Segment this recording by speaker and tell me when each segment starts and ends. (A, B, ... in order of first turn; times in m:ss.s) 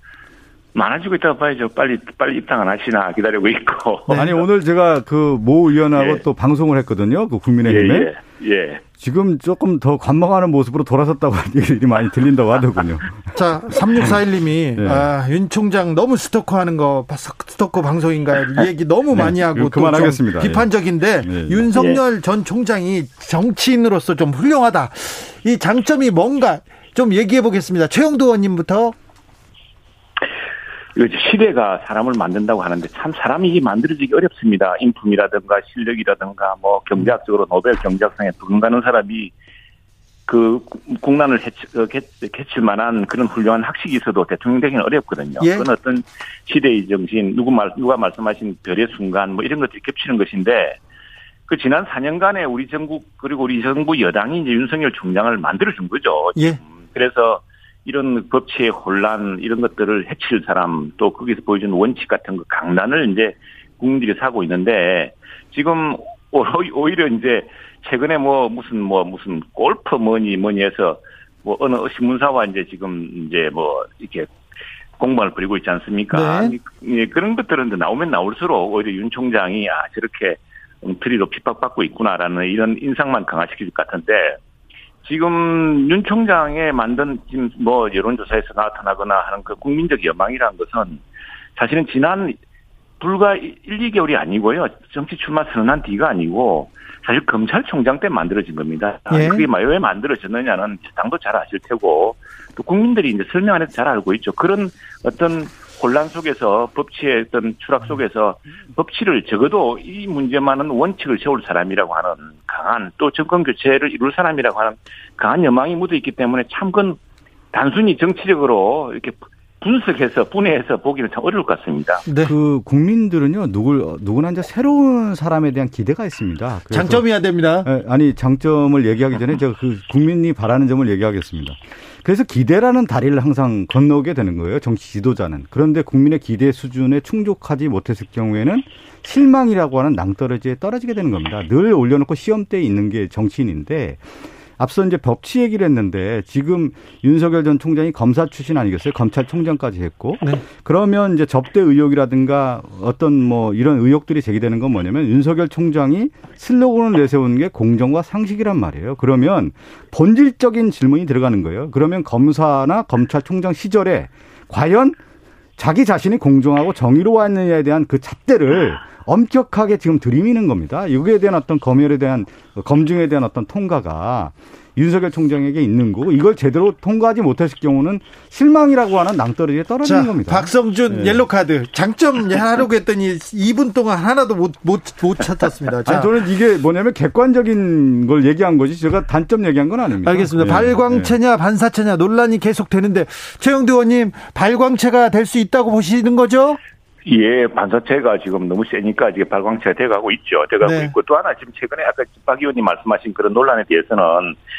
0:00.7-0:04.4 A
0:04.1-0:04.3 B
0:04.1-0:08.1 C
0:06.0-0:06.2 A
0:07.6-0:08.8 A
0:09.0-0:13.3 C
0:13.3-0:28.9 B
0:14.8-0:15.1 C
0:19.1-0:20.7 C
0:21.2-0:21.7 C
0:21.7-0:22.0 A
0:31.0-0:39.3 A
0:40.3-0:50.8 A
0:45.4-0:45.7 B
0:51.5-1:14.3 A
1:15.0-1:24.4 A
1:16.1-1:16.6 B
1:25.0-1:31.0 A
1:31.6-1:32.4 A
1:33.0-1:57.0 A
1:39.1-1:39.5 B
1:57.5-2:02.0 A
2:02.1-2:02.3 B
2:02.2-2:07.1 C
2:06.7-2:07.7 B
2:07.6-2:24.0 C
2:24.6-2:45.0 C
2:45.6-3:01.2 C
2:59.8-3:06.2 B
3:05.8-3:11.2 C
3:10.0-3:16.6 B
3:17.0-3:24.3 A
3:20.6-3:20.9 B